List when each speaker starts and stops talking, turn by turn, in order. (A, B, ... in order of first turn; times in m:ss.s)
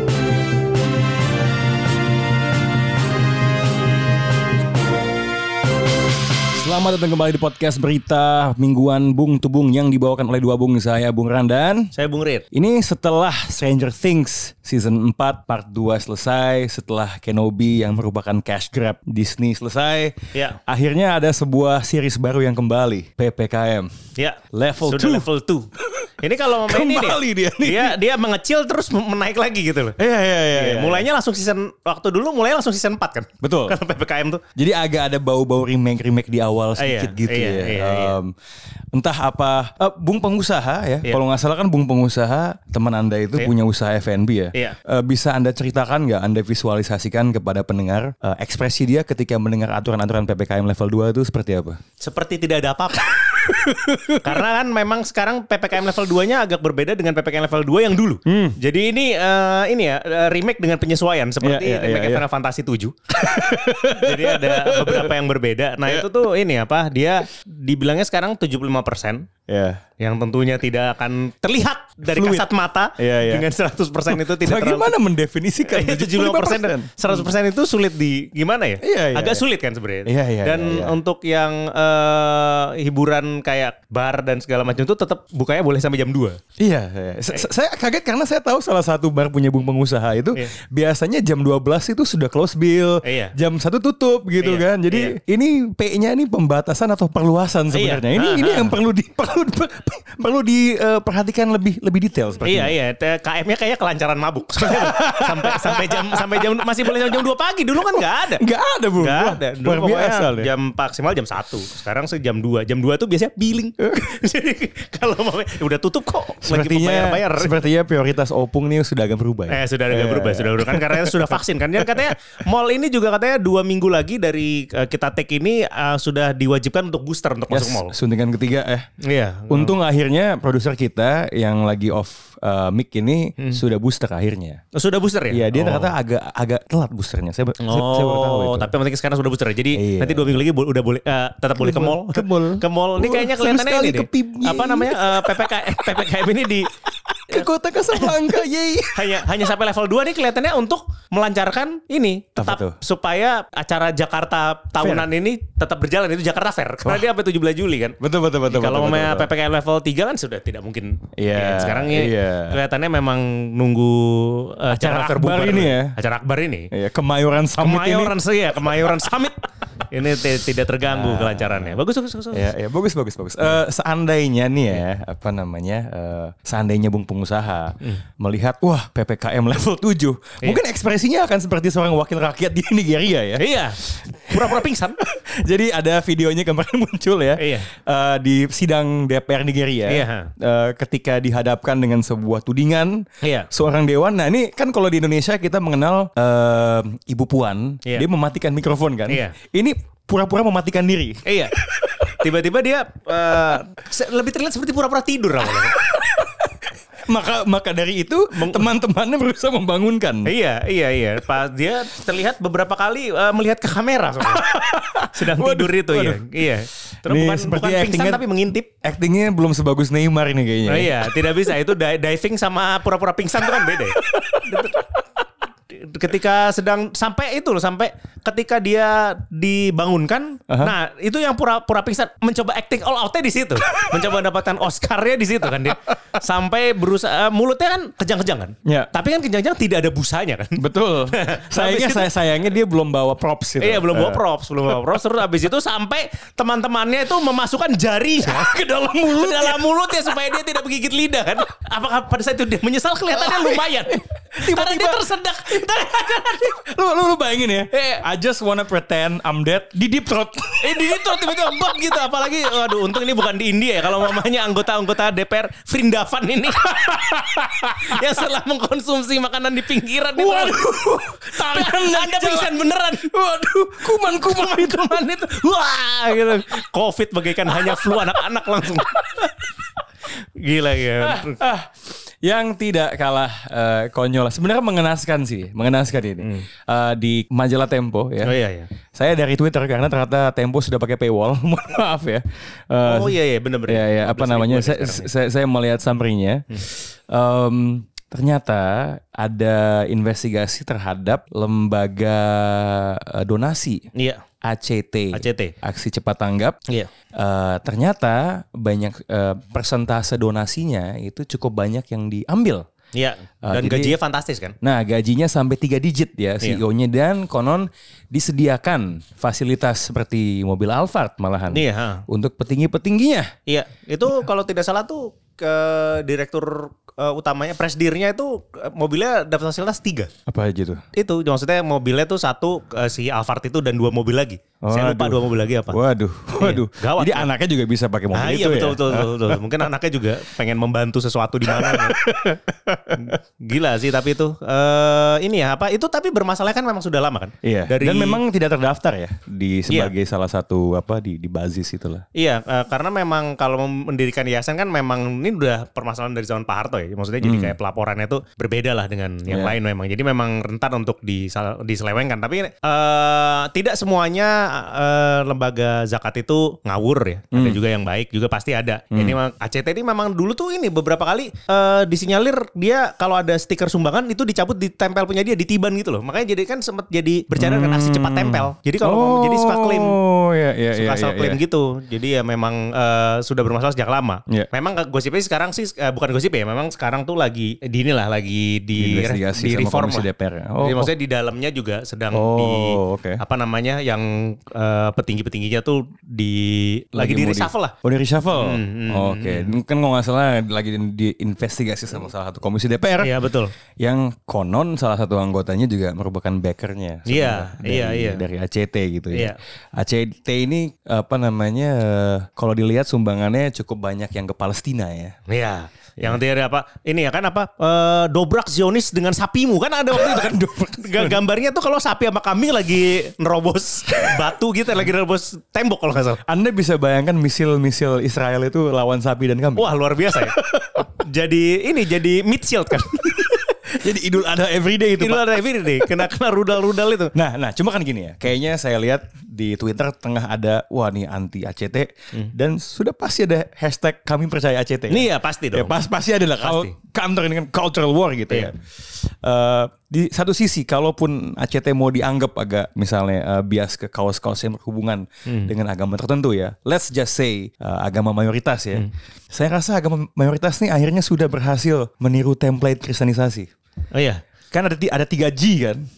0:06.6-0:11.9 A
0:11.9-0:12.4 B
0:12.5-0:23.9 A
0:24.2-0:25.7 B
0:24.5-0:25.3 A
0:26.2-0:30.0 B
0:26.6-0:28.0 A
0:30.0-0:31.1 A
0:30.5-0:34.4 B
0:33.4-0:33.8 A
0:34.6-0:38.3 A
0:36.8-0:38.2 B
0:38.9-0:51.8 A
0:52.0-0:53.4 B
0:53.4-0:54.4 A
0:54.2-1:09.3 B
0:58.2-0:58.6 A
1:01.4-1:02.2 A
1:03.2-1:05.1 A
1:09.5-1:09.8 A
1:10.0-1:15.0 B
1:12.1-1:13.5 A
1:14.1-1:17.3 A
1:15.6-1:26.4 B
1:18.8-1:19.4 A
1:20.0-1:21.0 A
1:26.6-1:42.8 A
1:33.0-1:33.3 B
1:34.4-1:35.1 B
1:37.7-1:38.8 B
1:42.4-1:48.4 B
1:44.7-1:46.9 A
1:48.4-1:50.5 A
1:49.0-1:57.6 B
1:56.4-2:02.0 A
1:59.5-2:07.9 B
2:07.5-2:08.9 A
2:09.0-2:09.7 B
2:09.5-2:14.6 A
2:14.7-2:15.9 B
2:15.3-2:18.7 A
2:17.6-2:26.7 B
2:19.8-2:20.4 A
2:21.6-2:25.9 A
2:27.3-2:29.3 A
2:27.3-2:28.3 B
2:28.9-2:46.7 B
2:32.4-2:32.8 A
2:34.8-2:35.1 A
2:38.0-2:39.3 A
2:41.2-2:42.6 A
2:44.7-2:46.0 A
2:46.7-2:48.2 A
2:47.6-2:52.5 B
2:48.7-2:48.9 A
2:50.9-2:51.8 A
2:52.3-3:22.2 A
3:03.4-3:05.0 B
3:07.4-3:07.7 B
3:09.9-3:10.3 B
3:13.2-3:13.5 B
3:19.1-3:19.4 B
3:21.2-3:21.5 B
3:22.2-3:25.8 B
3:25.6-3:26.5 A
3:27.1-3:30.3 A
3:28.3-3:28.7 B
3:30.2-3:38.7 B
3:34.3-3:36.3 A
3:37.0-3:38.2 A
3:38.8-3:41.6 A
3:40.7-3:44.9 B
3:43.5-3:45.0 A
3:45.7-4:02.1 B
3:50.5-3:50.7 A
3:58.6-3:58.9 A
4:00.6-4:04.9 A
4:03.6-4:16.5 B
4:08.2-4:10.2 A
4:13.2-4:20.8 A
4:17.7-4:18.0 B
4:20.6-4:30.7 B
4:26.8-4:28.0 A
4:30.2-4:35.1 A
4:31.4-4:33.1 B
4:33.9-4:39.3 B
4:37.5-4:38.2 A
4:40.4-4:41.4 B
4:41.0-4:48.4 A
4:46.2-4:46.5 B
4:48.2-4:48.7 B
4:48.9-4:53.2 A
4:52.8-4:55.1 B
4:53.7-5:03.9 A
5:04.0-5:04.2 B
5:04.4-5:06.6 A
5:05.1-5:05.5 B
5:07.2-5:12.6 A
5:12.9-5:14.6 B
5:13.4-5:14.0 A
5:14.6-5:23.3 A
5:21.5-5:22.0 B
5:23.5-5:30.1 B
5:30.3-5:30.8 A
5:30.9-5:35.8 B
5:34.6-5:39.4 A
5:36.4-5:37.3 B
5:38.1-5:42.3 B
5:41.5-5:43.1 A
5:43.0-5:48.2 B
5:47.4-5:52.0 A
5:52.2-6:20.0 B
5:57.2-5:57.6 A
5:59.3-5:59.6 A
6:07.3-6:07.6 A
6:08.9-6:09.2 A
6:17.4-6:21.4 A
6:20.7-6:30.1 B
6:28.8-6:30.9 A
6:30.6-6:37.8 B
6:32.1-6:33.2 A
6:37.0-6:43.1 A
6:38.3-6:39.6 B
6:43.0-6:43.5 B
6:43.8-6:55.2 A
6:47.1-6:48.3 B
6:49.1-6:49.4 B
6:55.3-7:06.2 B
6:59.9-7:01.2 A
7:06.3-7:10.9 A
7:09.6-7:10.4 B
7:11.0-7:13.5 B
7:13.7-7:16.0 A
7:15.0-7:17.1 B
7:17.1-7:43.5 A
7:24.9-7:25.8 B
7:26.4-7:26.7 B
7:35.3-7:35.5 B
7:43.9-7:44.2 B
7:44.5-7:45.9 A